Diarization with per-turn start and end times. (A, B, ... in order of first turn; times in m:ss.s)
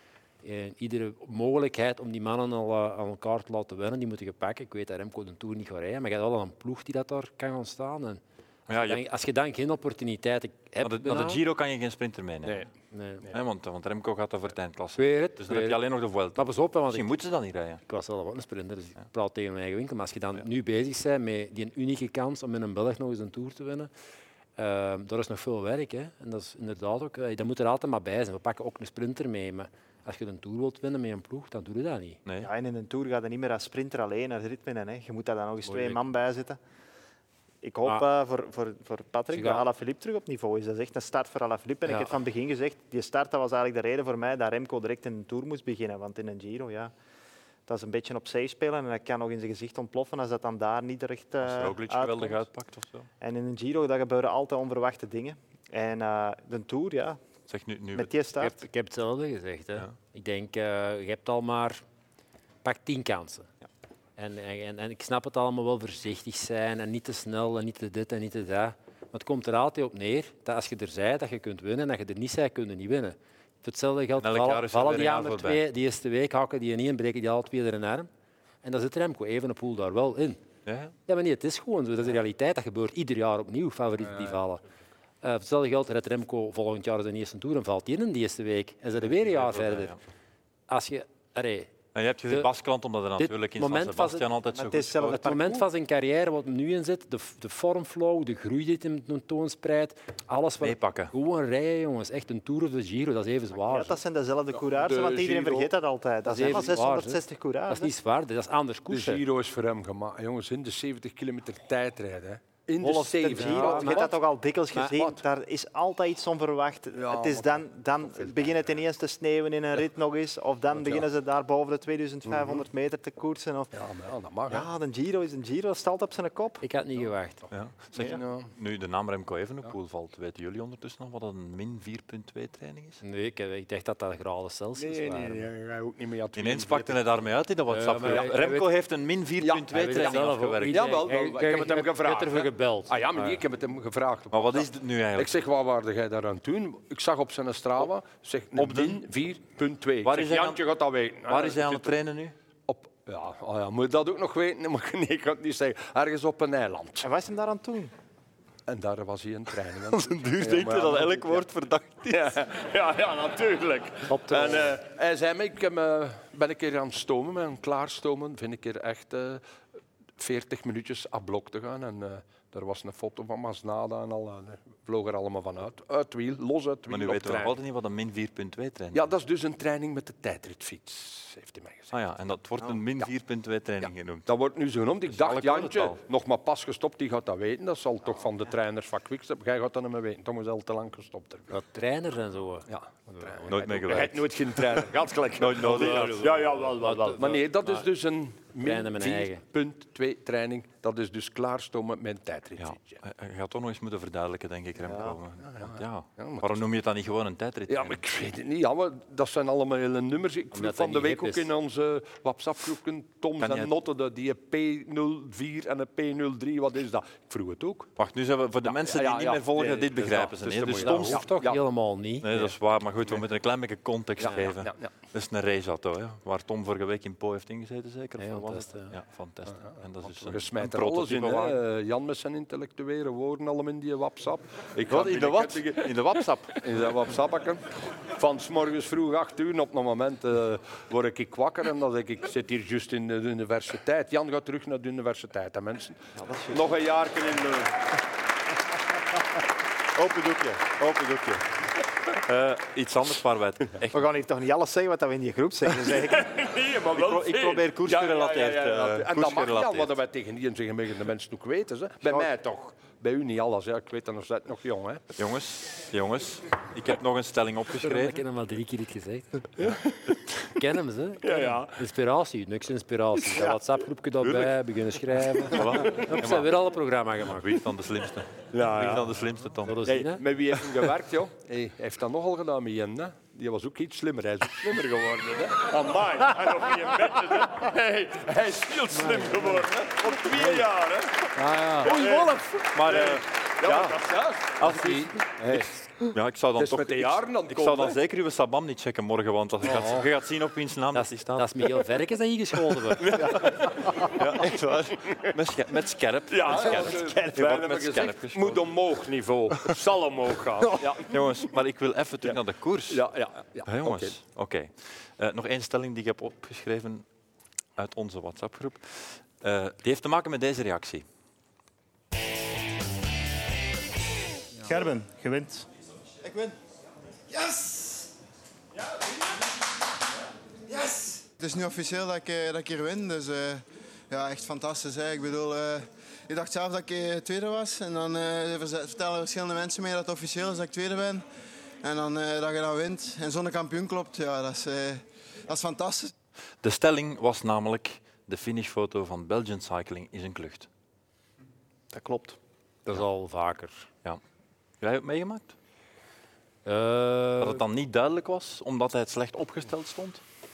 0:00.4-0:11.4 A
0:08.7-0:09.0 B
0:10.8-0:12.7 B
0:12.9-0:13.3 A
0:13.3-0:17.8 B
0:15.0-0:15.8 A
0:16.4-0:17.1 A
0:17.9-0:23.9 A
0:24.6-0:32.2 A
0:32.3-0:32.5 B
0:32.4-0:36.6 C
0:35.7-0:36.0 A
0:37.6-0:46.9 C
0:39.3-0:39.6 A
0:47.7-0:52.5 C
0:51.4-0:53.1 B
0:53.2-0:57.2 C
0:57.5-0:58.1 B
0:57.9-0:58.6 C
0:58.4-1:01.8 A
1:02.6-1:03.5 A
1:04.2-1:18.1 A
1:14.2-1:15.6 B
1:18.6-1:20.4 A
1:20.7-1:21.0 B
1:21.1-1:24.6 A
1:25.2-1:30.0 A
1:29.3-1:30.0 B
1:30.7-1:31.7 A
1:31.9-1:35.3 B
1:33.2-1:34.3 A
1:34.5-1:35.6 C
1:35.0-1:44.0 A
1:40.6-1:41.1 B
1:43.6-1:47.9 C
1:44.6-1:45.7 D
1:46.3-1:49.2 A
1:48.9-1:54.2 D
1:52.8-2:03.8 C
1:53.3-1:54.1 A
1:54.8-1:55.2 D
1:57.0-1:58.6 D
2:00.8-2:01.0 D
2:02.3-2:02.6 D
2:03.8-2:04.7 D
2:04.5-2:06.6 C
2:06.6-2:07.5 A
2:07.5-2:13.0 B
2:08.1-2:08.5 D
2:13.0-2:15.5 A
2:14.8-2:17.0 D
2:16.4-2:21.0 B
2:17.7-2:18.7 A
2:18.0-2:18.4 D
2:19.4-2:20.2 D
2:19.7-2:23.4 A
2:20.7-2:31.9 D
2:24.3-2:25.3 B
2:28.6-2:29.0 B
2:30.0-2:30.6 B
2:31.3-2:32.4 B
2:32.7-2:37.1 D
2:37.0-2:37.9 C
2:38.7-2:41.4 D
2:39.9-2:42.4 B
2:42.1-2:49.4 D
2:44.1-2:44.7 A
2:50.2-2:57.6 D
2:56.9-2:59.1 B
2:58.9-3:01.9 D
3:01.9-3:04.3 B
3:03.8-3:11.5 D
3:05.1-3:06.0 B
3:11.5-3:14.0 A
3:12.7-3:23.0 D
3:13.5-3:14.8 B
3:15.4-3:16.4 B
3:15.6-3:17.8 A
3:18.6-3:19.4 A
3:22.6-3:28.0 B
3:24.8-3:25.2 C
3:25.5-3:26.6 D
3:27.7-3:37.9 D
3:30.5-3:31.5 A
3:33.4-3:33.7 B
3:38.0-3:41.3 B
3:38.6-3:41.6 D
3:40.8-3:42.3 A
3:42.2-3:51.6 B
3:44.2-3:44.9 D
3:48.2-3:48.9 A
3:49.6-3:56.0 D
3:54.9-3:56.7 B
3:56.6-4:06.0 D
4:06.2-4:06.7 C
4:06.5-4:07.9 D
4:10.0-4:11.4 B
4:12.1-4:14.1 B
4:13.9-4:16.4 C
4:16.1-4:25.0 D
4:16.9-4:20.0 B
4:25.2-4:28.2 B
4:27.8-4:29.5 A
4:30.5-4:37.5 A
4:31.2-4:31.8 D
4:34.2-4:34.6 B
4:35.5-4:36.5 B
4:37.4-4:39.8 B
4:38.5-4:39.1 D
4:39.7-4:40.2 A
4:39.8-4:55.8 D
4:49.0-4:49.6 A
4:51.4-4:51.9 A
4:52.7-4:54.0 B
4:54.6-5:01.5 B
4:56.6-4:58.0 D
4:59.6-5:00.1 A
5:00.9-5:03.2 A
5:03.0-5:04.5 D
5:03.1-5:08.7 B
5:06.3-5:11.3 D
5:11.0-5:13.1 B
5:12.9-5:14.1 D
5:13.6-5:17.0 B
5:17.8-5:21.0 B
5:24.6-5:25.7 C
5:26.2-5:26.6 E
5:27.3-5:28.1 E
5:30.7-5:41.2 E
5:41.8-5:46.1 E
5:46.6-5:50.7 B
5:51.9-5:52.4 C
5:52.9-5:53.9 A
5:54.8-5:55.6 B
5:56.7-5:57.6 A
5:57.4-6:00.2 B